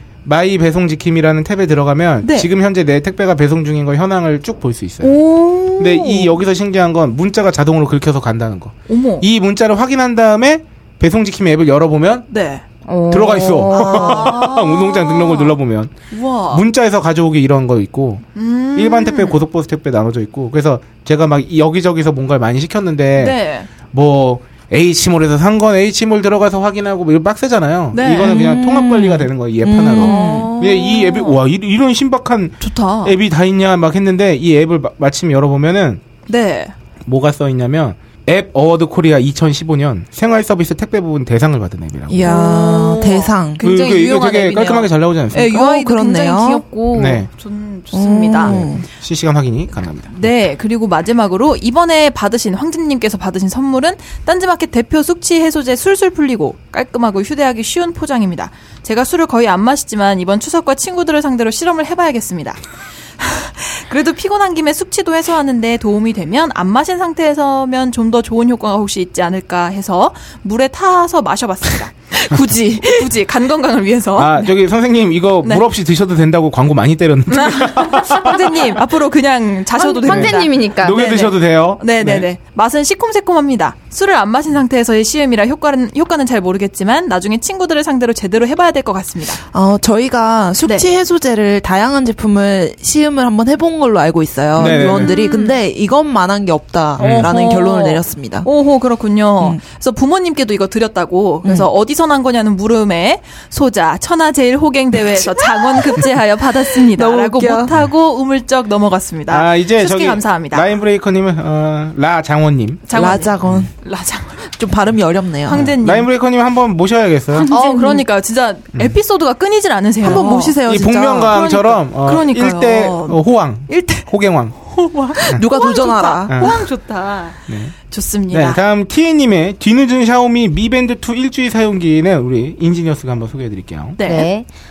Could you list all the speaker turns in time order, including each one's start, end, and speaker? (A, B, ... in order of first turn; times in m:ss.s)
0:00.2-0:05.2 A
0:02.2-0:02.5 B
0:05.0-0:06.4 B
0:05.8-0:12.3 A
0:08.9-0:09.3 B
0:12.3-0:12.6 B
0:12.9-0:14.3 C
0:13.1-0:15.9 A
0:13.7-0:15.6 B
0:16.1-0:16.6 B
0:16.5-0:36.0 A
0:18.4-0:19.4 B
0:23.2-0:23.7 B
0:27.9-0:28.4 B
0:28.2-0:30.5 D
0:30.0-0:31.4 B
0:32.6-0:33.2 B
0:36.3-0:36.7 B
0:37.1-0:42.4 A
0:42.1-0:43.6 D
0:42.2-0:48.6 B
0:43.6-0:45.6 A
0:45.4-0:46.6 D
0:46.9-0:47.3 A
0:47.9-0:48.8 D
0:48.4-0:50.3 A
0:50.1-1:02.6 B
1:03.2-1:14.5 B
1:14.2-1:18.8 A
1:17.3-1:29.4 B
1:19.8-1:21.1 C
1:20.0-1:22.3 A
1:29.5-1:38.5 D
1:30.6-1:30.9 B
1:34.6-1:35.1 A
1:34.6-1:35.6 B
1:37.0-1:37.3 A
1:37.0-1:50.7 B
1:46.6-1:47.7 D
1:49.3-1:52.9 A
1:52.9-1:54.5 B
1:52.9-1:53.7 D
1:54.6-1:55.7 D
1:55.5-1:56.1 B
1:55.5-1:57.5 A
1:57.4-2:00.6 B
1:57.5-1:57.8 C
1:57.5-1:58.0 D
2:00.0-2:01.4 D
2:00.0-2:04.6 A
2:01.3-2:04.1 B
2:04.7-2:08.6 B
2:05.3-2:06.5 D
2:06.3-2:06.6 A
2:07.5-2:07.8 A
2:08.3-2:14.0 A
2:14.0-2:14.3 B
2:14.0-2:14.5 C